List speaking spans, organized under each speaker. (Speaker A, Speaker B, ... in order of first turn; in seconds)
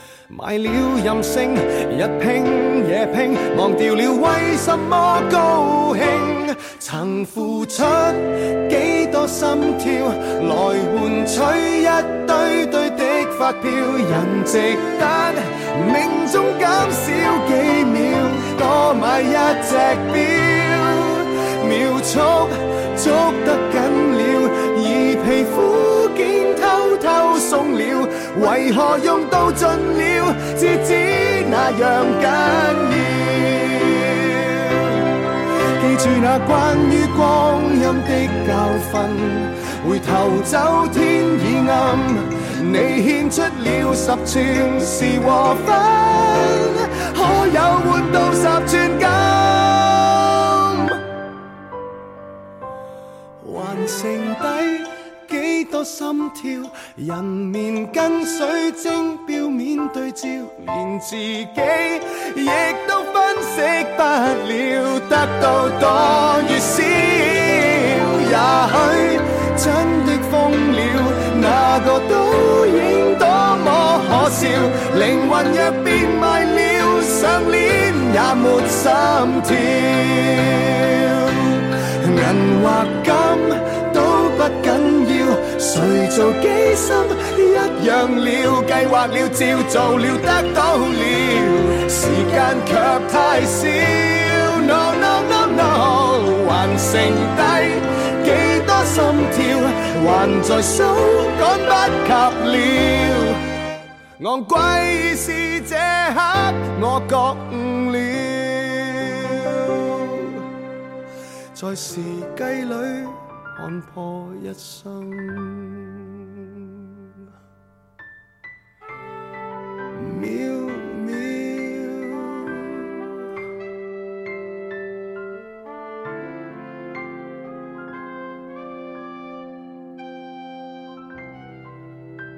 Speaker A: 0.3-35.0, 35.8-51.0, 53.4-103.4, 104.2-110.5, 111.5-117.0, 119.9-122.8